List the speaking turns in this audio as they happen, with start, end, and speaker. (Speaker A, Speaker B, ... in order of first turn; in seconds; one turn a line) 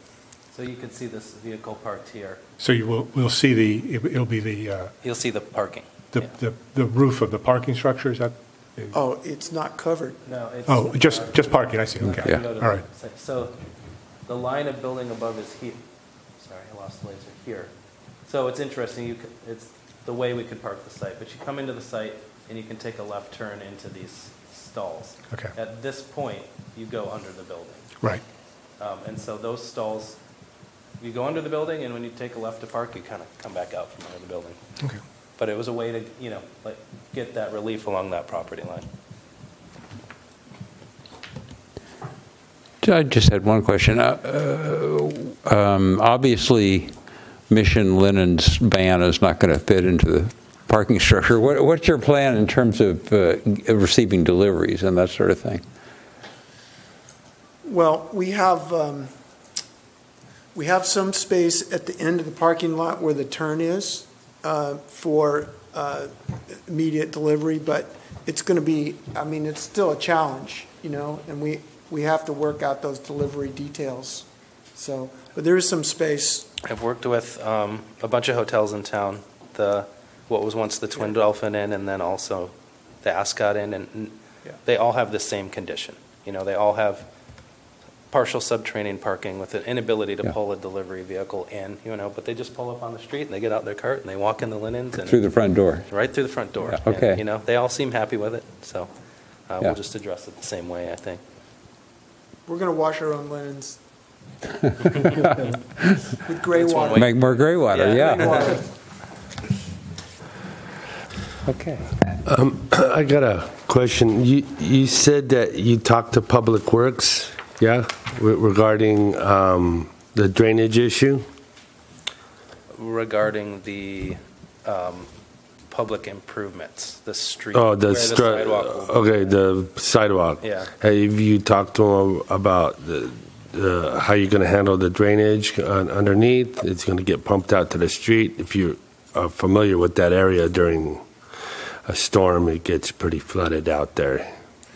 Speaker A: 0.5-2.4
Speaker B: 2.6-4.9
Speaker A: 5.0-6.3
Speaker B: 6.1-8.9
Speaker C: 8.9-10.2
Speaker A: 10.2-13.6
Speaker B: 10.7-12.8
Speaker A: 14.2-15.8
Speaker A: 16.4-17.7
Speaker A: 18.3-27.9
Speaker A: 28.8-30.2
Speaker A: 31.0-34.6
Speaker A: 35.4-38.9
Speaker D: 42.8-46.9
Speaker D: 47.5-55.6
Speaker C: 57.6-59.1
Speaker C: 60.5-76.5
Speaker A: 76.6-87.1
Speaker A: 88.1-98.9
Speaker D: 95.0-95.9
Speaker D: 96.7-97.2
Speaker A: 99.5-101.2
Speaker C: 102.5-103.8
Speaker C: 106.2-107.1
Speaker A: 106.5-108.6
Speaker D: 107.0-108.2
Speaker C: 108.0-108.6
Speaker D: 111.5-111.9
Speaker E: 112.2-121.2
Speaker A: 122.7-125.1
Speaker A: 125.7-129.4
Speaker E: 127.5-141.0
Speaker A: 130.4-130.7
Speaker E: 141.8-144.3